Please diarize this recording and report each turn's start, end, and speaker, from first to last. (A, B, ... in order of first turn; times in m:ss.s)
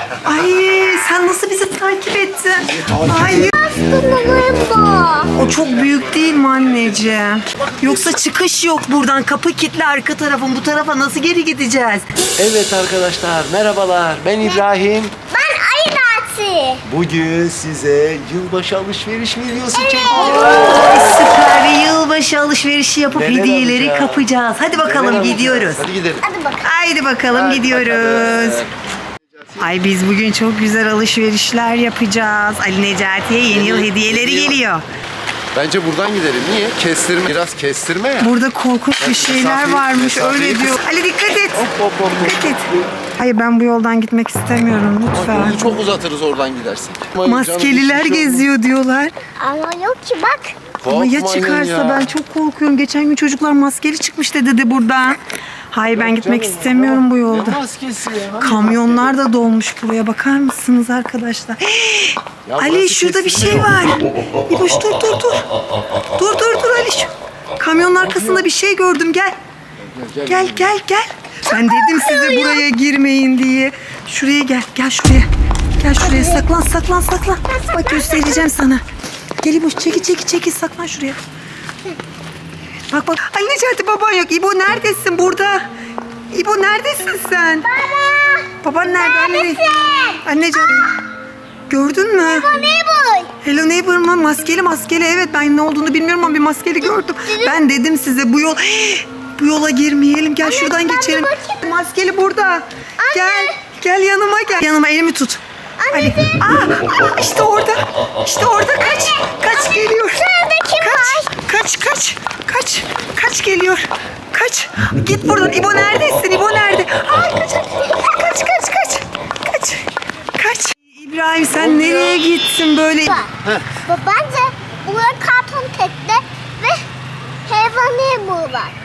0:00.2-0:03.6 A
0:03.1-0:05.3 B
0:05.3-0:12.1 A
0:12.4-0:15.2 C
0:15.3-0:16.8 B
0:16.9-0:21.3 C
0:19.7-0:20.8 B
0:20.1-0:25.9 A
0:23.1-0:24.3 C
0:24.8-0:26.2 C
0:26.2-0:26.6 B
0:26.6-0:28.6 A
0:27.3-0:28.7 C
0:29.4-0:29.7 C
0:29.6-0:34.8 A
0:33.5-0:34.6 C
0:35.5-0:38.3 C
0:38.2-0:45.8 A
0:39.0-0:40.8 C
0:41.6-0:42.6 C
0:45.1-0:48.5 C
0:47.2-0:49.1 A
0:49.4-0:50.6 B
0:50.8-0:52.1 C
0:50.8-0:55.2 A
0:55.7-0:57.6 A
0:55.9-0:59.1 C
0:58.4-1:05.5 A
1:02.4-1:03.9 C
1:06.2-1:09.4 A
1:08.0-1:08.4 C
1:09.8-1:10.7 C
1:10.3-1:18.8 A
1:11.9-1:12.6 B
1:16.0-1:16.4 B
1:17.6-1:18.4 B
1:19.4-1:21.2 A
1:22.9-1:25.7 A
1:26.3-1:27.7 A
1:27.7-1:30.2 B
1:28.6-1:29.7 A
1:30.2-1:31.0 A
1:31.7-1:32.5 A
1:32.2-1:33.3 B
1:33.4-1:50.3 A
1:36.8-1:37.6 B
1:40.4-1:41.6 B
1:43.0-1:43.5 B
1:45.8-1:46.3 B
1:49.6-1:51.3 B
1:50.8-2:03.2 A
2:01.5-2:02.2 C
2:03.1-2:03.3 B
2:03.8-2:06.8 B
2:07.5-2:08.8 B